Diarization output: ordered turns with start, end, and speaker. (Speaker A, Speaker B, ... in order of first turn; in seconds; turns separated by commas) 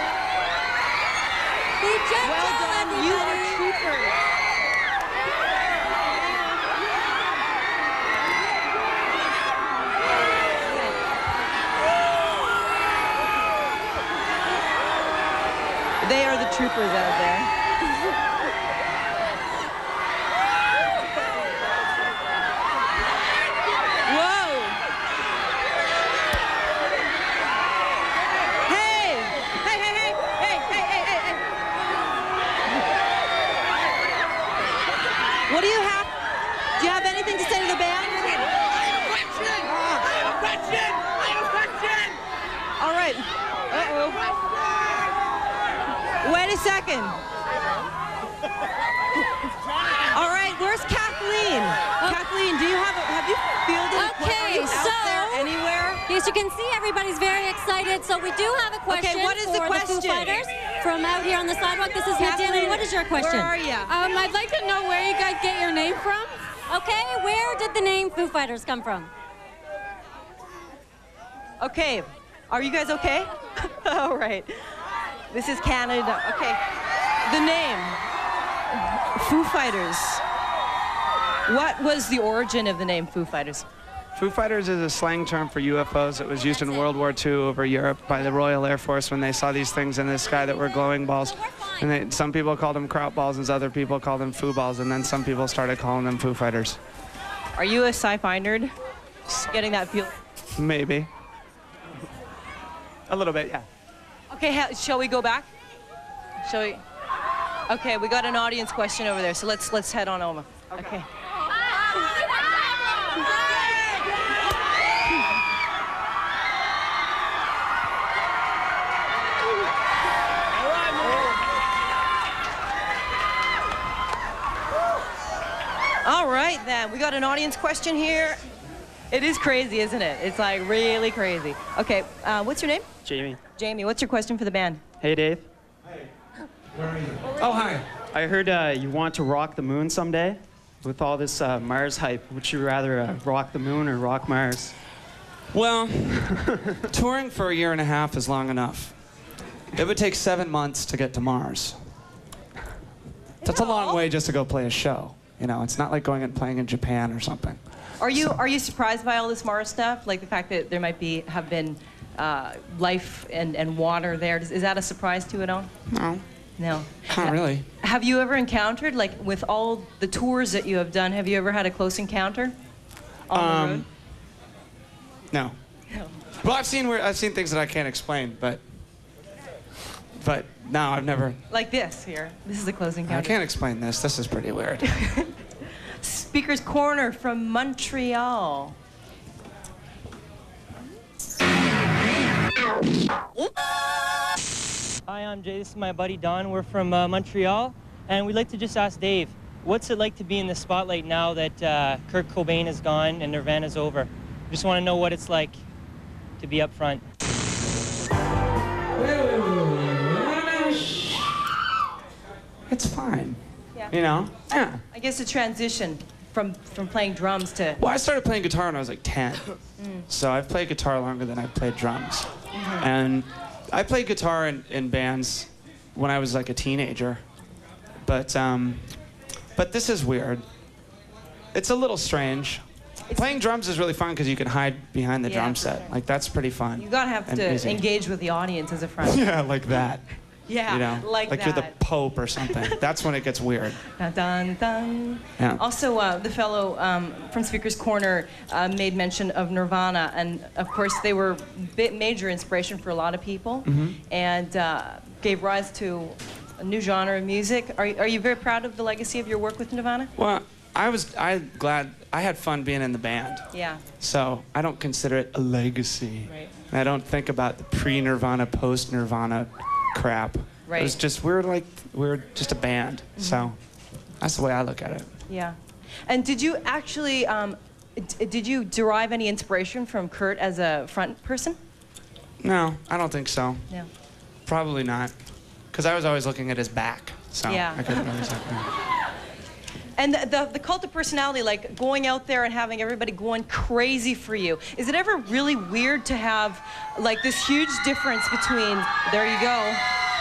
Speaker A: 1.8-3.6, Speaker B: 2.2-4.1, Speaker B: 16.0-17.5, Speaker B: 24.1-24.8, Speaker B: 28.6-31.4, Speaker B: 35.5-36.1, Speaker B: 36.8-38.3, Speaker B: 42.8-44.3, Speaker B: 46.2-47.2, Speaker B: 50.1-56.0, Speaker A: 53.9-55.5, Speaker A: 56.1-69.1, Speaker B: 58.9-60.4, Speaker B: 62.2-64.0, Speaker B: 71.6-74.7, Speaker B: 75.3-76.6, Speaker B: 77.2-78.0, Speaker B: 78.7-80.2, Speaker B: 81.5-83.7, Speaker C: 84.2-96.8, Speaker A: 86.5-86.9, Speaker A: 91.3-92.0, Speaker B: 97.5-98.7, Speaker B: 99.3-100.1, Speaker C: 100.6-101.1, Speaker C: 103.1-103.7, Speaker B: 104.3-105.5, Speaker B: 106.4-106.8, Speaker B: 107.7-111.0, Speaker B: 126.0-128.4, Speaker B: 129.1-132.9, Speaker D: 133.1-133.4, Speaker B: 133.6-134.8, Speaker D: 135.0-135.4, Speaker C: 137.4-137.8, Speaker D: 138.1-144.7, Speaker C: 145.5-146.3, Speaker C: 146.9-149.0, Speaker C: 149.7-151.8, Speaker C: 153.4-157.6, Speaker B: 153.4-154.0, Speaker B: 158.0-165.7, Speaker C: 165.9-166.2, Speaker B: 166.6-172.6, Speaker C: 167.0-167.6, Speaker B: 173.3-173.8, Speaker C: 173.3-173.9, Speaker C: 175.3-175.6, Speaker C: 176.4-178.6, Speaker C: 180.2-181.4, Speaker B: 181.5-183.4, Speaker C: 183.1-184.9, Speaker B: 185.0-185.3, Speaker B: 186.0-188.8, Speaker E: 195.1-205.6, Speaker E: 206.4-207.0, Speaker C: 212.7-213.4, Speaker C: 213.9-214.8, Speaker B: 214.9-217.8, Speaker C: 217.8-219.4, Speaker B: 219.8-220.1, Speaker C: 220.1-222.3, Speaker B: 222.5-222.8, Speaker C: 222.8-227.2, Speaker C: 228.0-229.0, Speaker C: 229.5-230.4, Speaker C: 231.5-237.8, Speaker B: 235.2-235.9, Speaker B: 236.8-239.3, Speaker C: 239.0-240.0, Speaker B: 240.5-241.7, Speaker C: 240.7-243.8, Speaker B: 242.4-242.8, Speaker B: 243.9-260.1, Speaker C: 253.6-254.0, Speaker C: 260.2-263.4, Speaker B: 263.5-263.8, Speaker C: 264.0-273.6, Speaker B: 270.6-270.9, Speaker B: 273.2-273.5, Speaker C: 274.2-275.1, Speaker B: 275.3-281.6, Speaker C: 282.4-283.6, Speaker C: 284.4-285.1, Speaker C: 285.7-288.6, Speaker B: 287.4-288.0, Speaker B: 290.0-299.8